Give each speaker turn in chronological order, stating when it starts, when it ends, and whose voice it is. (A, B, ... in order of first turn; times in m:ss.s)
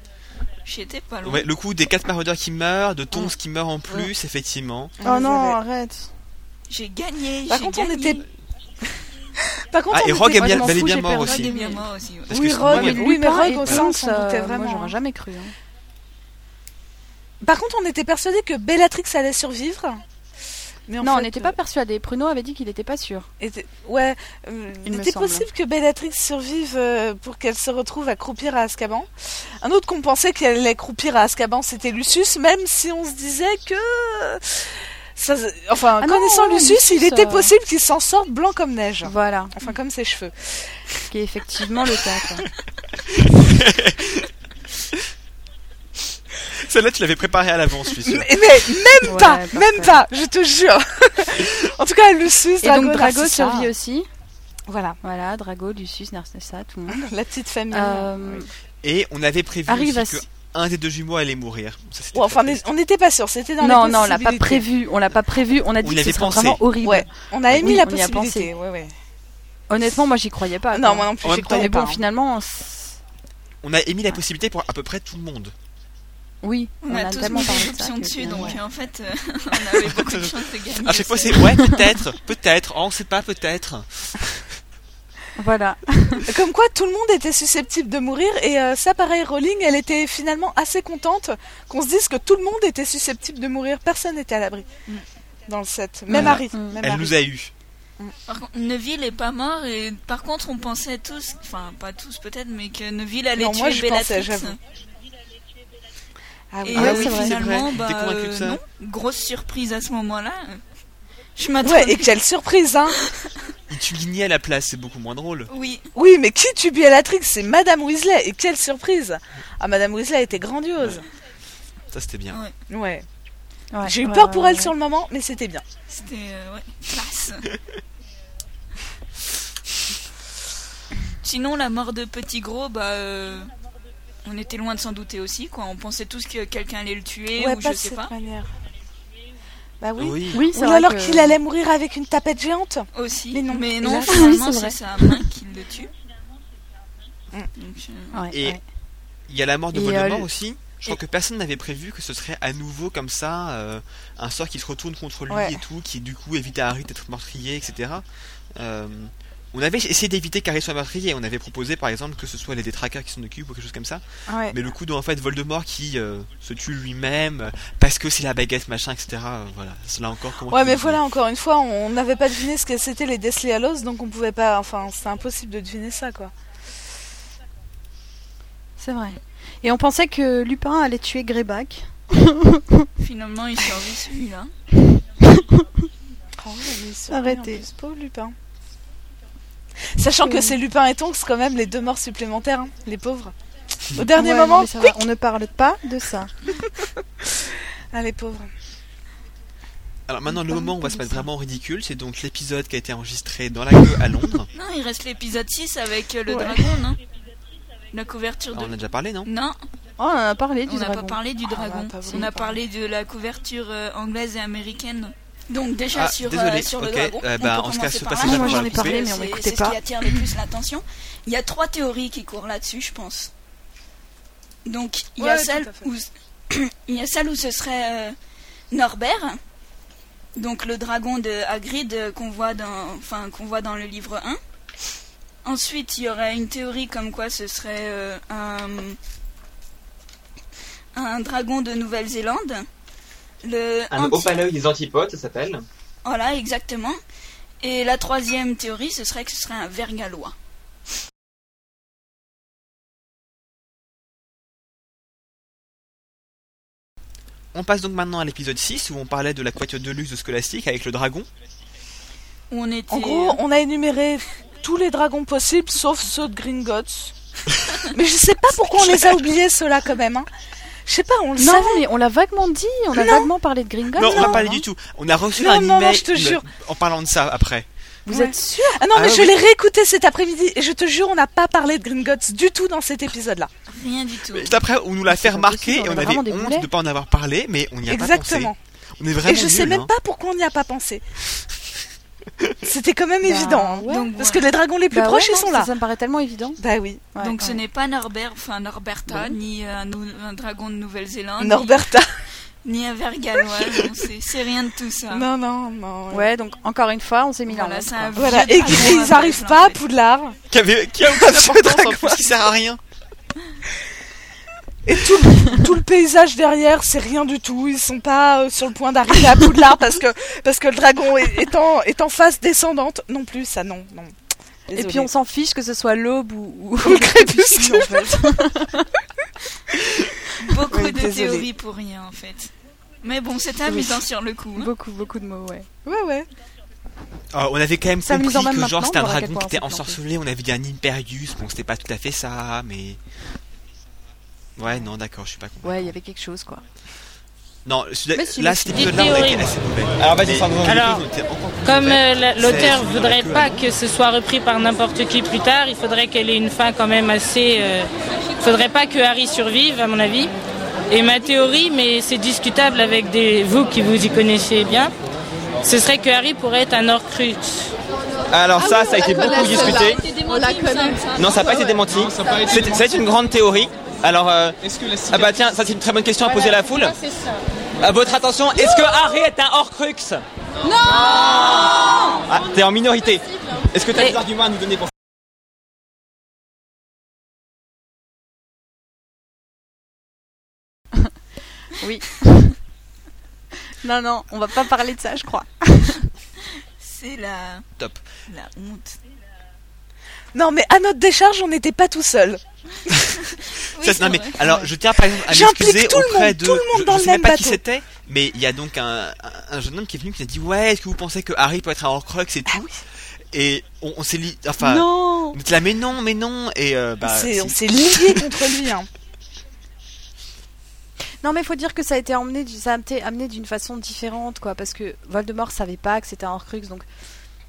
0:00.6-0:01.5 A
0:01.2-0:05.0 B
0:05.0-0:05.6 C
0:05.0-0:06.1 D
0:06.7-0:08.2 A
0:07.5-0:08.2 C
0:09.7-0:11.0 C
0:09.9-0:11.5 B
0:10.4-0:11.8 D
0:11.2-0:12.4 A
0:12.3-0:13.9 B
0:12.3-0:14.9 C
0:12.6-0:15.5 D
0:17.4-0:20.0 C
0:20.9-0:21.6 C
0:21.0-0:23.3 D
0:23.4-0:40.8 C
0:24.8-0:25.5 D
0:36.0-0:37.5 D
0:39.0-0:39.7 D
0:41.1-0:42.5 D
0:43.0-0:44.3 B
0:46.5-0:48.6 B
0:48.0-0:53.7 C
0:49.0-0:50.0 D
0:52.6-0:54.1 D
0:54.7-0:55.0 C
0:55.0-0:57.0 D
0:56.9-0:58.5 C
0:57.7-0:58.5 D
0:58.8-1:02.6 B
0:59.7-1:00.2 D
1:02.1-1:04.6 C
1:03.6-1:08.5 D
1:05.8-1:06.6 B
1:06.8-1:08.9 C
1:07.5-1:07.7 B
1:09.7-1:13.0 D
1:10.7-1:12.0 C
1:11.2-1:11.7 B
1:13.6-1:15.5 B
1:16.4-1:18.6 D
1:16.8-1:21.7 A
1:18.2-1:18.6 C
1:19.8-1:24.5 B
1:25.3-1:26.3 D
1:26.2-1:37.1 C
1:36.1-1:37.5 B
1:36.1-1:36.8 D
1:38.3-1:44.6 A
1:43.4-1:44.6 C
1:46.5-1:47.3 C
1:46.6-1:50.6 A
1:46.7-1:47.3 D
1:46.7-1:48.6 B
1:51.4-1:52.1 A
1:51.6-1:53.0 C
1:53.0-1:53.4 A
1:53.7-1:55.5 B
1:55.5-1:55.9 A
1:55.9-2:01.0 C
2:00.8-2:01.0 B
2:01.9-2:02.4 B
2:02.7-2:03.0 C
2:03.7-2:04.7 D
2:03.8-2:05.6 C
2:05.9-2:07.5 A
2:11.2-2:13.5 A
2:14.2-2:18.1 A
2:17.4-2:18.5 C
2:19.8-2:24.4 C
2:20.0-2:20.4 B
2:20.3-2:21.4 D
2:22.9-2:25.9 A
2:23.9-2:25.2 D
2:27.6-2:28.2 A
2:28.1-2:28.6 D
2:28.3-2:28.6 B
2:29.3-2:51.0 B
2:29.7-2:30.3 D
2:35.3-2:35.6 C
2:44.3-2:44.6 C
2:50.5-2:56.3 C
2:58.8-3:02.9 D
3:03.0-3:04.5 A
3:05.2-3:05.6 D
3:06.4-3:08.3 C
3:07.1-3:07.6 D
3:09.9-3:13.3 C
3:10.2-3:10.6 D
3:13.9-3:15.0 C
3:14.1-3:16.3 D
3:16.6-3:18.5 C
3:20.1-3:24.5 B
3:20.3-3:21.2 D
3:24.5-3:27.0 A
3:26.3-3:26.6 D
3:27.9-3:29.6 A
3:28.5-3:29.3 B
3:30.0-3:31.2 D
3:30.6-3:43.3 A
3:31.5-3:32.5 C
3:32.0-3:32.4 D
3:35.9-3:39.0 B
3:38.2-3:39.8 D
3:44.6-3:48.2 A
3:45.2-3:45.9 C
3:48.7-3:49.4 A
3:50.4-3:54.4 A
3:55.4-3:59.0 A
4:00.9-4:02.7 A
4:03.4-4:04.3 A
4:03.9-4:05.6 E
4:06.0-4:07.0 A
4:07.6-4:10.3 A
4:17.5-4:21.3 B
4:22.5-4:23.4 A
4:22.9-4:27.1 C
4:27.8-4:30.3 C
4:30.8-4:31.8 C
4:31.4-4:34.6 D
4:32.9-4:33.3 C
4:33.9-4:37.7 B
4:34.0-4:34.4 C
4:35.4-4:36.4 C
4:38.1-4:38.8 D
4:38.1-4:43.5 C
4:38.9-4:39.4 B
4:43.7-4:44.6 A
4:44.3-4:49.9 B
4:45.1-4:46.7 D
4:47.9-4:48.6 C
4:49.2-4:51.0 C
4:52.6-4:55.7 C
4:53.2-4:54.1 D
4:53.8-4:54.4 A
4:54.9-4:56.6 D
4:56.6-4:57.1 C
4:57.1-4:57.6 D
4:57.2-5:01.8 A
4:59.1-4:59.4 D
5:01.4-5:02.1 C
5:02.6-5:05.3 A
5:05.1-5:06.3 C
5:06.1-5:08.4 D
5:07.4-5:09.8 A
5:08.2-5:10.4 C
5:10.5-5:12.8 B
5:11.1-5:12.3 C
5:14.8-5:24.1 C
5:24.7-5:25.1 C
5:24.7-5:28.9 D
5:26.8-5:28.2 C
5:30.4-5:34.7 A
5:30.7-5:31.4 C
5:33.7-5:34.0 C
5:34.6-5:35.7 D
5:35.8-5:36.3 C
5:37.3-5:43.0 B
5:38.0-5:40.0 D
5:44.6-5:45.9 B
5:45.6-5:46.6 D
5:47.6-5:53.7 B
5:48.1-5:48.9 D
5:48.7-5:49.5 F
5:50.0-5:50.9 E
5:50.6-5:51.0 F
5:51.6-6:00.3 F
6:00.9-6:04.9 F
6:05.6-6:07.7 F
6:08.3-6:10.0 E
6:08.6-6:11.8 C
6:10.3-6:11.0 A
6:11.1-6:17.0 E
6:17.8-6:20.2 E
6:20.8-6:24.9 E
6:31.7-6:32.6 D
6:33.8-6:36.0 D
6:36.8-6:37.7 A
6:38.3-6:39.0 A
6:40.3-6:42.9 C
6:43.4-6:44.4 A
6:43.8-6:52.6 B
6:44.4-6:47.6 C
6:52.5-6:52.8 C
6:53.3-6:58.5 B
6:54.6-6:55.4 D
6:57.0-6:58.9 C
7:01.2-7:06.9 D